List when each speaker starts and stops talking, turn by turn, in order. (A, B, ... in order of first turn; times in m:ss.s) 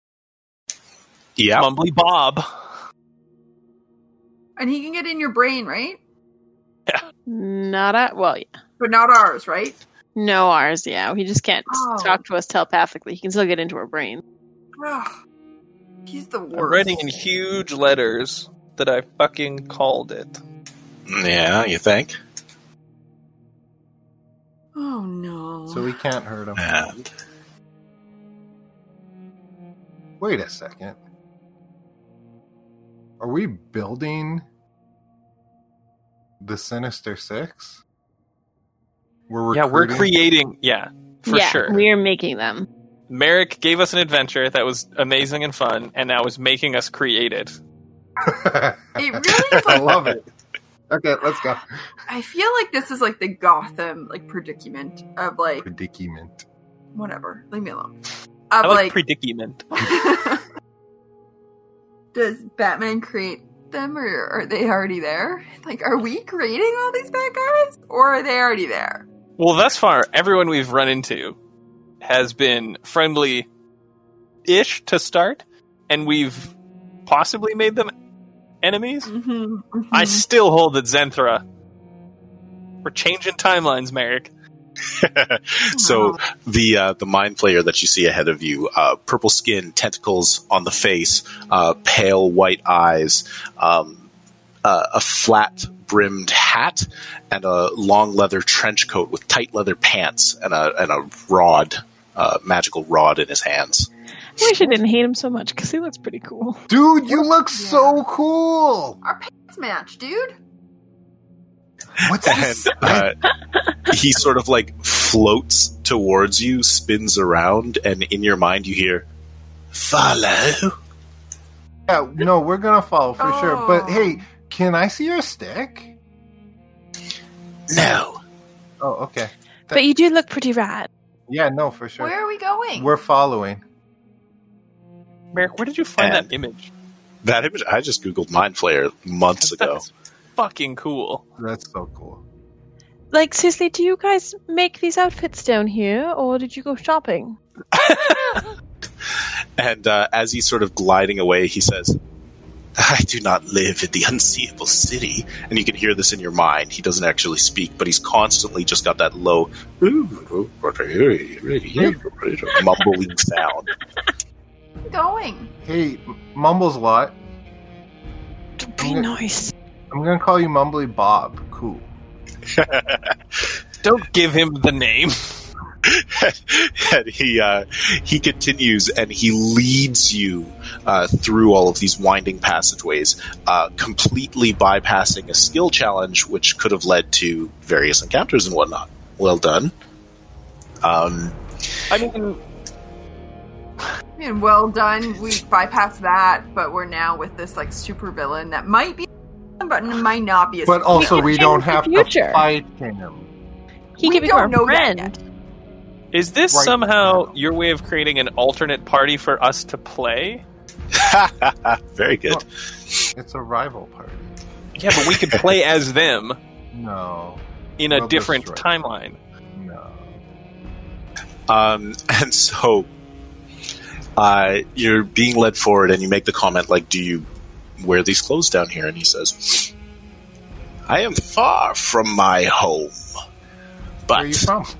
0:01.4-0:01.7 A
0:01.6-0:02.5 B
0:04.6-0:06.0 C
0:07.3-0:08.5 D
0:08.8-0:09.8 C
0:10.2-0:14.2 D
0:11.7-0:12.2 C
0:14.8-0:15.1 C
0:16.1-0:17.2 C
0:16.5-0:20.4 B
0:21.1-0:22.2 A
0:24.8-0:25.9 C
0:25.7-0:26.6 E
0:26.6-0:27.1 A
0:30.2-0:31.0 E
0:33.2-0:34.4 E
0:36.4-0:37.8 E
0:39.3-0:40.1 E
0:39.5-0:41.8 B
0:41.3-0:42.7 D
0:43.1-0:47.6 B
0:48.2-0:50.3 E
0:49.0-0:50.1 C
0:50.9-0:51.7 E
0:52.1-0:55.7 C
0:55.6-0:56.4 E
0:56.9-0:57.9 C
0:58.5-0:59.0 C
0:58.6-0:59.6 B
0:59.7-1:00.4 C
1:02.1-1:09.0 C
1:09.4-1:11.4 B
1:12.0-1:13.5 B
1:14.4-1:16.5 B
1:17.1-1:17.9 B
1:18.6-1:19.1 B
1:19.0-1:20.2 C
1:19.9-1:21.4 B
1:22.8-1:24.3 B
1:25.0-1:34.1 A
1:25.7-1:26.2 C
1:34.6-1:43.9 A
1:44.4-1:46.6 D
1:46.7-1:49.0 E
1:47.1-1:48.0 C
1:49.0-1:50.4 C
1:52.0-1:53.1 E
1:52.2-1:53.2 A
1:53.9-1:59.1 A
1:59.7-2:00.8 A
2:01.9-2:05.9 E
2:03.2-2:04.2 C
2:07.7-2:08.2 A
2:08.8-2:09.8 E
2:09.7-2:10.9 D
2:11.3-2:12.1 E
2:12.0-2:13.0 C
2:12.8-2:13.6 E
2:15.3-2:16.7 B
2:16.0-2:16.3 A
2:17.2-2:19.8 A
2:19.4-2:21.2 B
2:21.4-2:22.2 E
2:23.1-2:27.4 D
2:27.7-2:28.4 B
2:29.6-2:32.0 A
2:32.8-2:43.7 A
2:44.9-2:45.5 C
2:45.6-2:47.2 E
2:48.6-2:49.5 D
2:48.8-2:49.1 E
2:49.9-2:51.9 E
2:52.5-2:53.2 A
2:53.8-2:55.2 B
2:55.9-3:09.7 A
3:10.8-3:11.4 A
3:11.9-3:12.4 B
3:14.2-3:19.1 C
3:19.6-3:21.4 C
3:20.7-3:23.3 E
3:20.9-3:22.5 D
3:24.0-3:25.2 D
3:24.0-3:25.2 C
3:26.1-3:30.4 B
3:26.5-3:27.4 E
3:30.9-3:32.4 A
3:33.1-3:34.3 E
3:34.8-3:36.4 B
3:35.0-3:35.3 A
3:36.7-3:38.7 E
3:37.8-3:39.2 B
3:39.5-3:40.2 E
3:41.5-3:42.9 A
3:44.2-3:47.3 A
3:47.8-3:49.7 A
3:50.9-3:52.9 A
3:54.1-3:54.5 A
3:54.1-3:54.7 E